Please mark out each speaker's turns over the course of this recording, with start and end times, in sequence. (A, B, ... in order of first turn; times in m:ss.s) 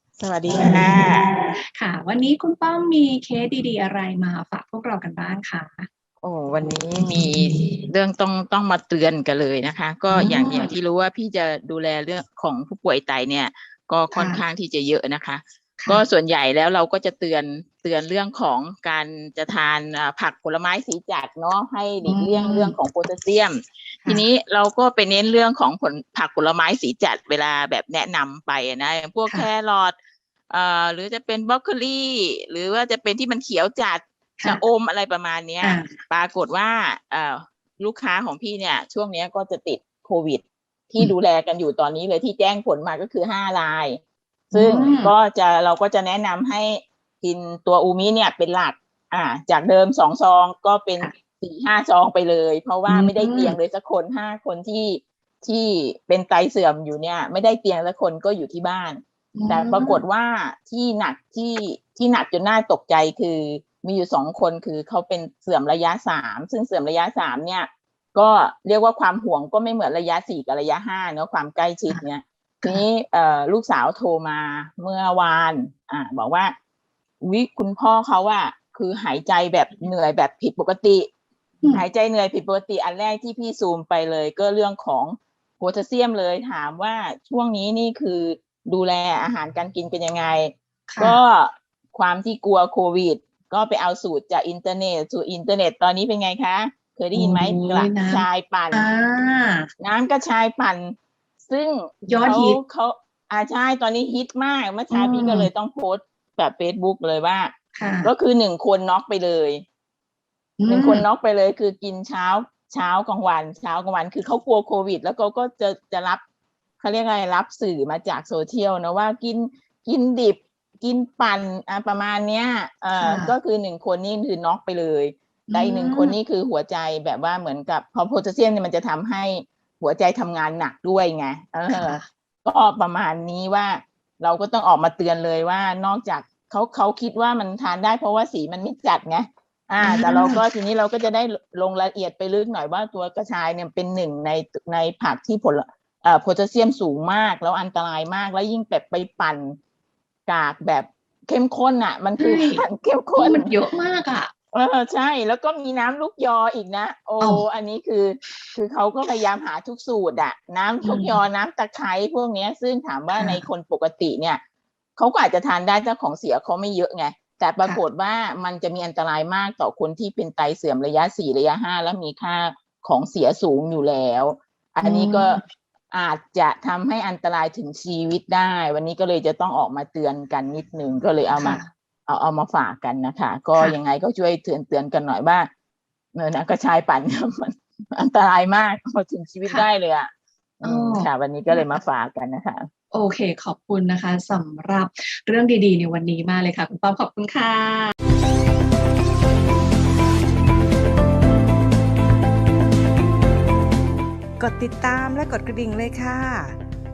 0:00.2-0:01.2 A
0:00.5-0:01.0 B
0:01.8-0:05.9 B
0:06.2-0:30.0 A
0:07.1-0:07.8 B
0:10.1-0:10.7 B
0:14.1-0:14.4 B
0:22.0-0:22.8 B
0:30.5-1:16.5 A
0:35.6-0:36.0 B
0:44.5-0:45.1 B
0:52.9-0:53.6 B
0:59.4-1:00.0 B
1:17.2-1:21.1 A
1:21.7-1:38.9 A
1:30.9-1:31.2 B
1:37.1-1:39.7 B
1:39.8-1:49.6 A
1:42.1-1:42.6 B
1:44.9-1:45.5 B
1:47.8-1:48.1 B
1:50.6-1:51.0 B
1:50.7-1:56.2 A
1:56.8-2:29.6 A
2:03.0-2:03.4 B
2:05.5-2:06.2 B
2:11.7-2:12.1 B
2:19.8-2:20.4 B
2:30.3-2:33.5 A
2:32.2-2:32.6 B
2:33.2-2:34.3 B
2:34.5-2:44.4 A
2:40.8-2:41.2 B
2:43.1-2:43.4 B
2:45.0-3:05.5 A
2:54.8-2:55.4 B
3:01.4-3:01.7 B
3:06.2-3:12.7 A
3:10.6-3:11.8 B
3:12.9-3:17.9 B
3:24.4-3:26.6 C